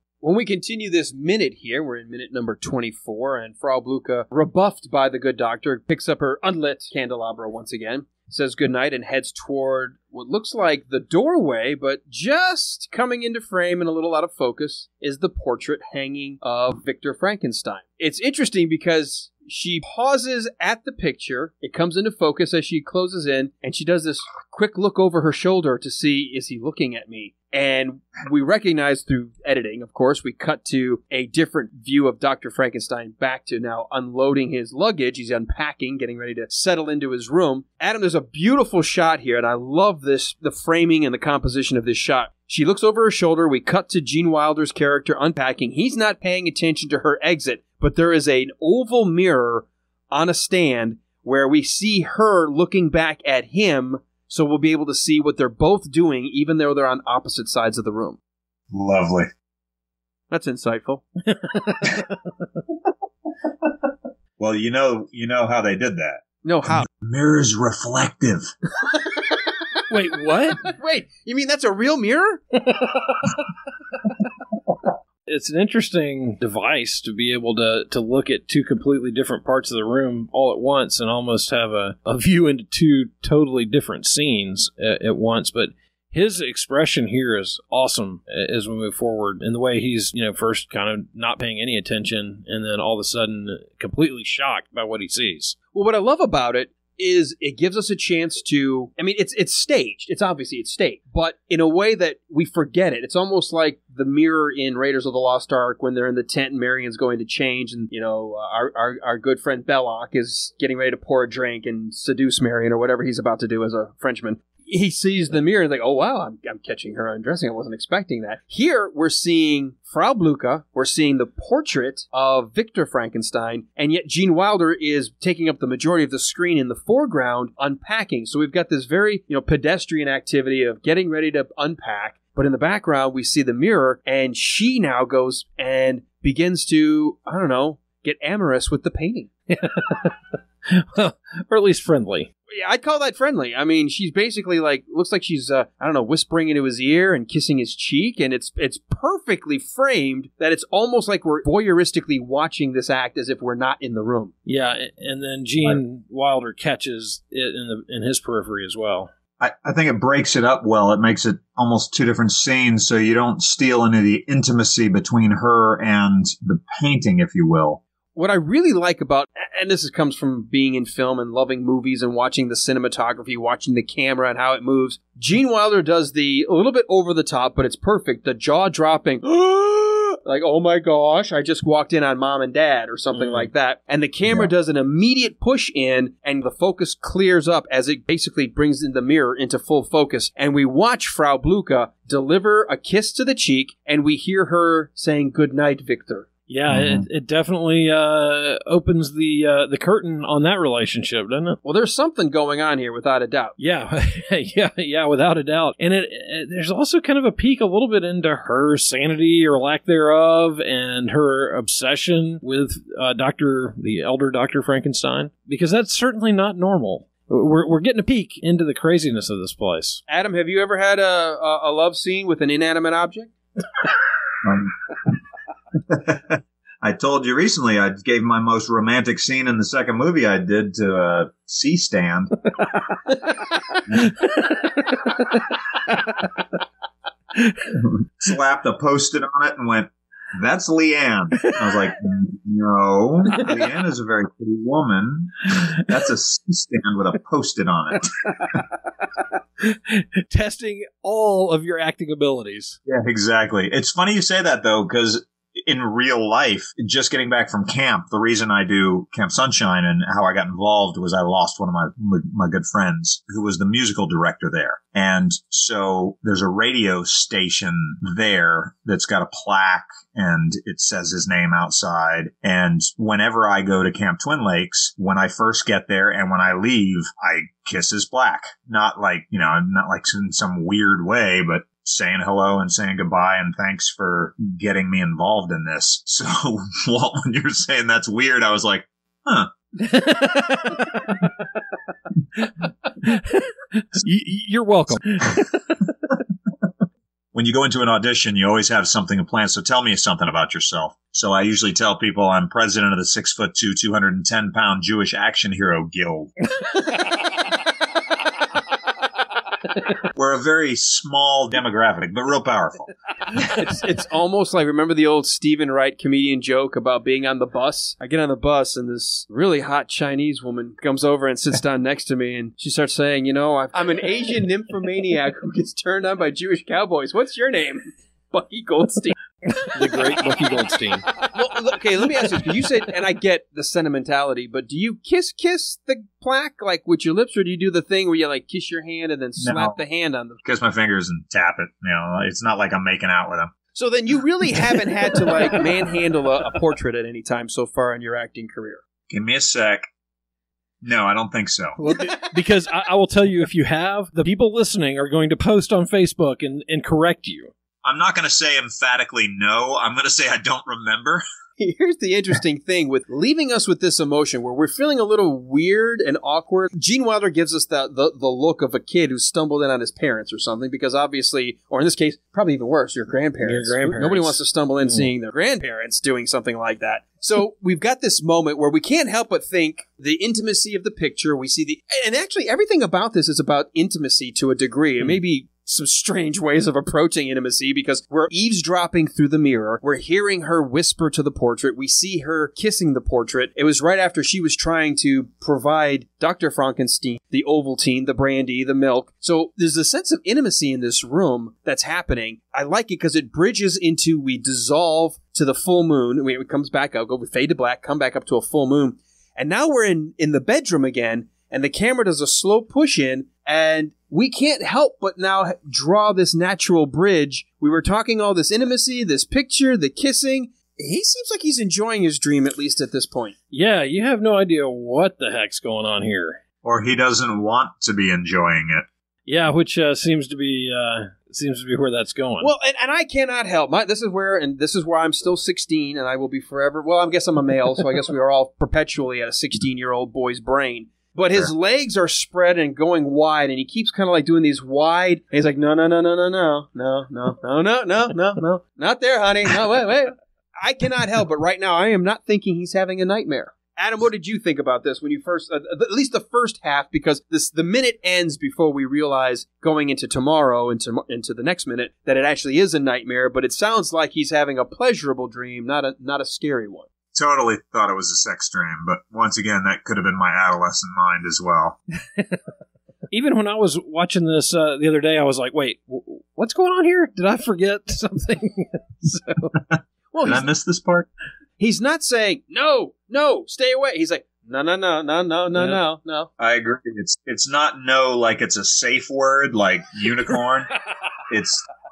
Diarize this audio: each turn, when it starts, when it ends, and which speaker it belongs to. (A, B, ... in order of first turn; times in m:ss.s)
0:00.2-0:58.2 A
0:58.7-0:59.3 B
1:00.3-1:01.0 A
1:01.3-1:02.1 C
1:04.4-1:08.5 B
1:06.4-1:06.9 A
1:09.9-1:10.6 C
1:10.6-1:12.4 A
1:15.3-1:35.6 C
1:35.7-2:19.3 A
2:19.5-2:20.2 C
2:20.7-2:22.3 C
2:22.5-2:34.3 A
2:34.5-2:39.1 C
2:39.4-2:47.8 B
2:48.2-3:16.3 A
3:03.1-3:03.5 C
3:16.5-3:21.6 C
3:16.7-3:17.1 B
3:21.6-3:23.6 A
3:23.6-3:40.0 C
3:40.1-3:43.3 A
3:44.4-3:45.2 B
3:45.8-3:52.3 B
3:54.1-3:54.7 C
3:57.7-4:08.6 B
4:09.6-4:12.8 C
4:12.9-4:49.5 B
4:49.8-4:51.2 C
4:53.0-4:55.6 C
4:57.3-5:06.4 B
5:10.1-5:12.9 B
5:13.3-5:29.2 A
5:29.6-5:31.2 C
5:29.8-5:30.1 A
5:31.2-5:40.4 A
5:39.4-5:39.8 B
5:40.4-5:43.5 B
5:43.7-5:48.8 A
5:49.1-5:49.9 B
5:50.8-5:51.8 B
5:51.8-5:57.5 C
5:57.8-6:01.2 B
6:01.6-7:03.4 A
6:13.4-6:15.1 C
7:03.5-7:06.4 C
7:06.6-7:08.9 B
7:09.3-7:12.5 C
7:12.4-7:46.9 A
7:47.1-7:51.8 B
7:53.1-7:59.5 C
7:59.7-8:01.1 B
8:00.1-8:00.5 A
8:01.6-8:06.3 A
8:06.4-8:10.7 B
8:11.3-8:11.6 B